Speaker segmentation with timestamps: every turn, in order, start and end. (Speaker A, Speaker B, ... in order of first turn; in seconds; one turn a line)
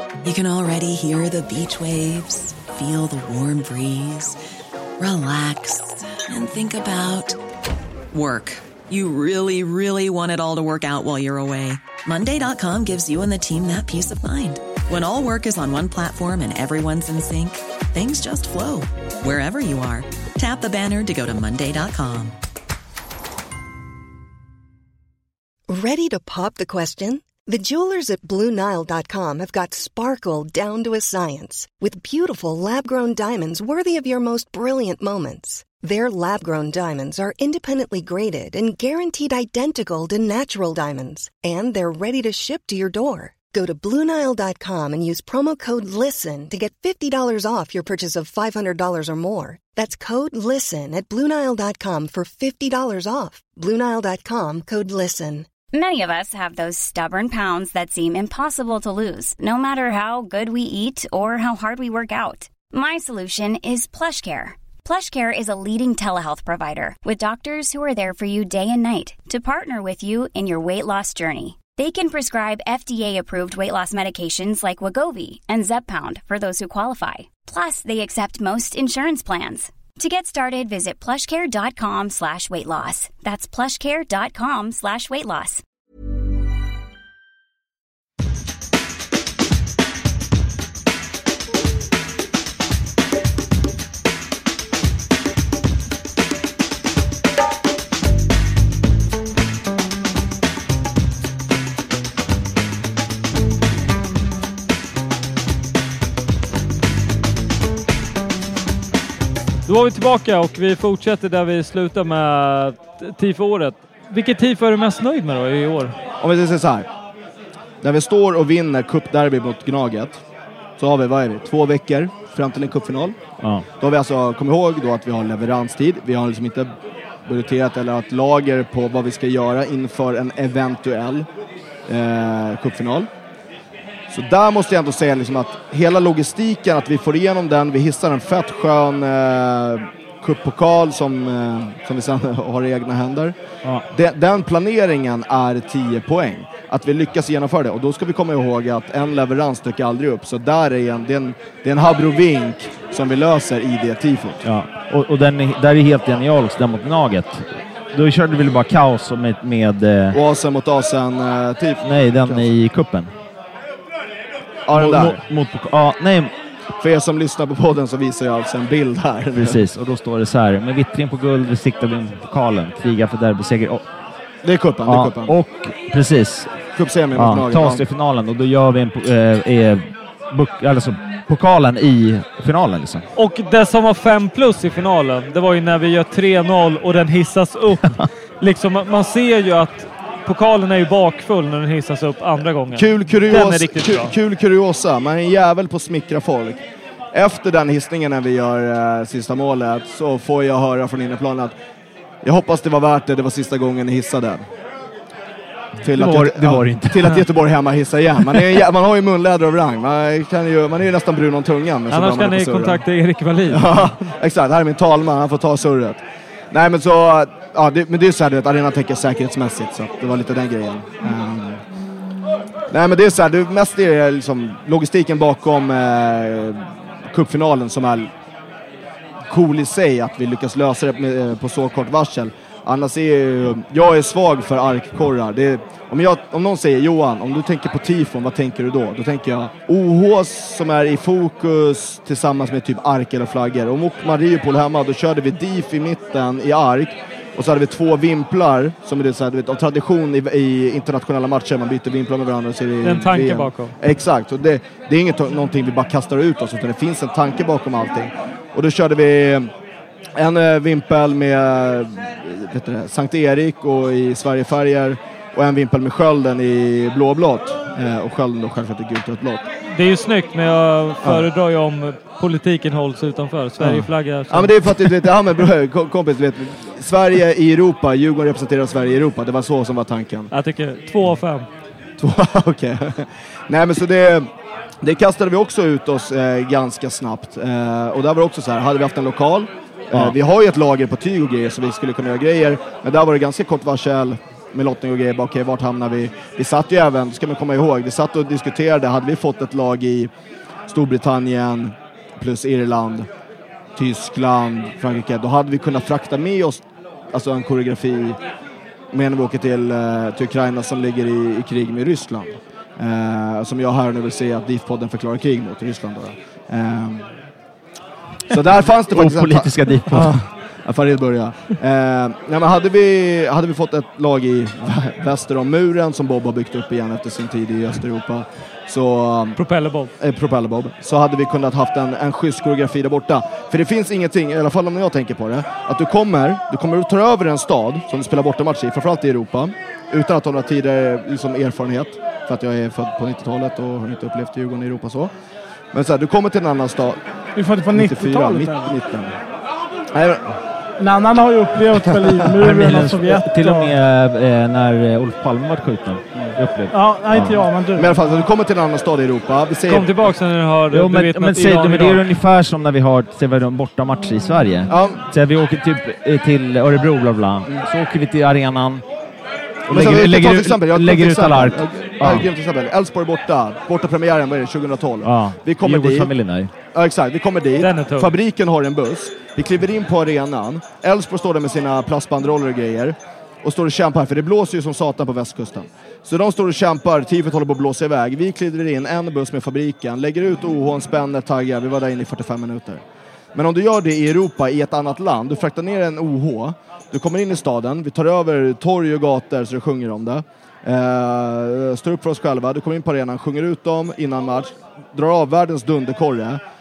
Speaker A: 0.2-4.4
Speaker A: 5.0-7.4
Speaker A: 8.1-22.4
Speaker B: 25.7-55.5
Speaker C: 55.7-85.6
Speaker D: 109.7-116.0
Speaker E: 116.2-116.9
Speaker E: 117.8-120.2
Speaker E: 120.8-123.2
Speaker E: 123.8-126.7
Speaker E: 127.3-131.3
Speaker E: 131.9-133.1
Speaker E: 134.1-143.3
Speaker E: 143.9-154.4
Speaker F: 154.4-160.2
Speaker E: 160.1-162.5
Speaker F: 161.8-163.1
Speaker E: 164.7-165.2
Speaker F: 164.7-166.3
Speaker E: 166.8-169.6
Speaker F: 169.4-173.9
Speaker E: 174.4-175.4
Speaker F: 174.9-176.6
Speaker E: 176.8-177.8
Speaker F: 177.2-183.1
Speaker D: 183.2-194.1
Speaker E: 192.7-196.6
Speaker E: 197.1-201.5
Speaker E: 202.2-204.4
Speaker E: 205.8-212.8
Speaker F: 205.8-207.3
Speaker D: 211.9-213.9
Speaker E: 213.5-221.6
Speaker E: 222.7-228.1
Speaker E: 229.3-259.5
Speaker D: 252.8-253.7
Speaker E: 260.2-269.5
Speaker D: 269.7-274.6
Speaker E: 271.0-271.3
Speaker E: 273.6-280.3
Speaker D: 280.3-281.5
Speaker E: 282.0-284.3
Speaker E: 284.8-300.1
Speaker E: 300.7-303.1
Speaker E: 303.8-308.2
Speaker E: 308.9-317.1
Speaker E: 318.3-329.4
Speaker F: 318.9-320.1
Speaker D: 329.4-329.9
Speaker E: 330.0-345.1
Speaker E: 345.7-347.0
Speaker G: 347.4-348.7
Speaker E: 347.7-349.2
Speaker E: 349.9-350.3
Speaker G: 350.8-353.8
Speaker F: 352.2-357.4
Speaker G: 356.7-358.2
Speaker E: 357.8-360.1
Speaker D: 359.7-362.1
Speaker F: 360.7-368.8
Speaker E: 364.7-365.0
Speaker F: 369.7-372.3
Speaker E: 369.7-376.1
Speaker F: 375.0-376.5
Speaker E: 376.7-392.8
Speaker D: 377.6-378.1
Speaker E: 393.3-406.4